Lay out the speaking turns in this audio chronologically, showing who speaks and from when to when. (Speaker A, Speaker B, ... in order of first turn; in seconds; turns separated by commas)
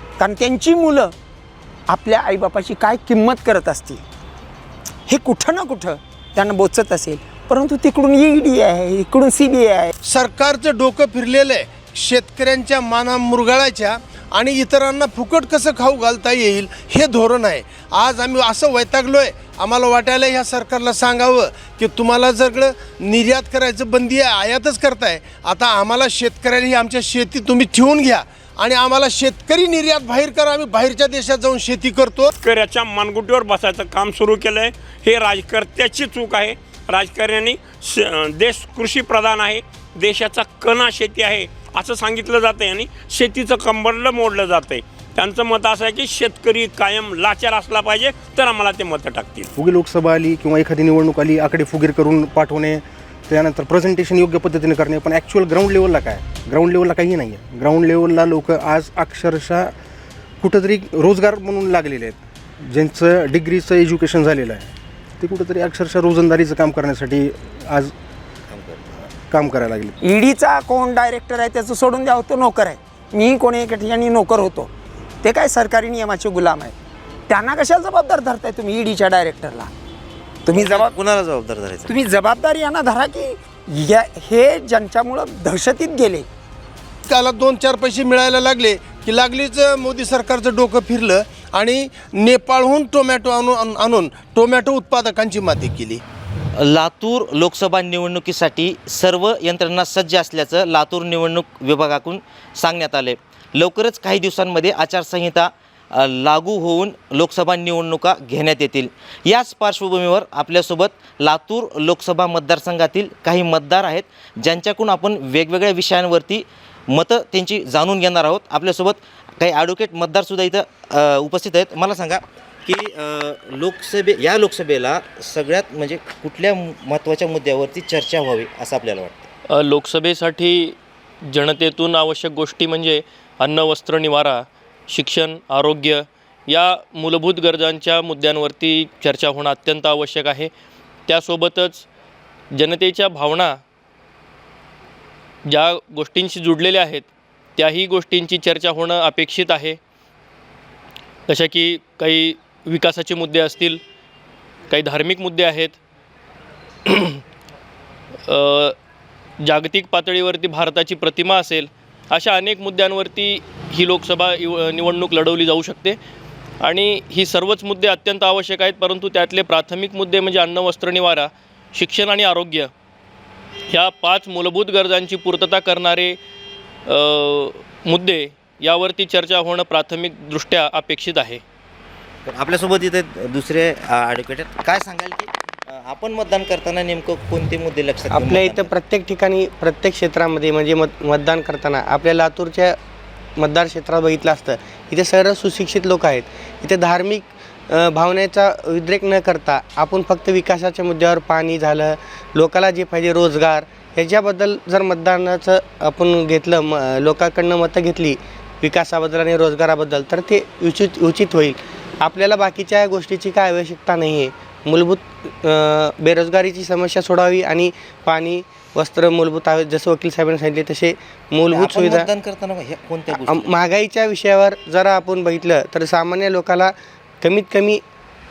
Speaker A: 0.2-1.1, Speaker A: 1.9-4.0, Speaker A: 5.1-9.9, Speaker B: 10.0-32.3, Speaker C: 32.4-49.5, Speaker D: 49.5-59.7, Speaker D: 60.4-67.9, Speaker E: 68.5-68.8, Speaker D: 69.2-70.0, Speaker A: 70.0-74.7, Speaker A: 75.2-76.7, Speaker A: 77.3-79.7, Speaker A: 80.5-81.0, Speaker E: 80.5-81.9, Speaker A: 81.8-86.3, Speaker B: 87.1-96.0, Speaker E: 96.5-129.3, Speaker F: 129.5-130.8, Speaker F: 131.3-140.5, Speaker F: 141.1-141.8, Speaker F: 142.6-143.6, Speaker F: 145.5-147.0, Speaker F: 147.6-149.8, Speaker F: 151.3-153.8, Speaker F: 154.7-155.8, Speaker F: 156.9-157.2, Speaker F: 158.3-158.7, Speaker F: 159.4-165.9, Speaker F: 166.6-172.7, Speaker F: 173.7-176.2, Speaker F: 176.9-181.4, Speaker E: 182.2-188.7, Speaker G: 188.1-192.7, Speaker G: 193.4-222.1, Speaker E: 221.5-223.6, Speaker G: 223.1-227.8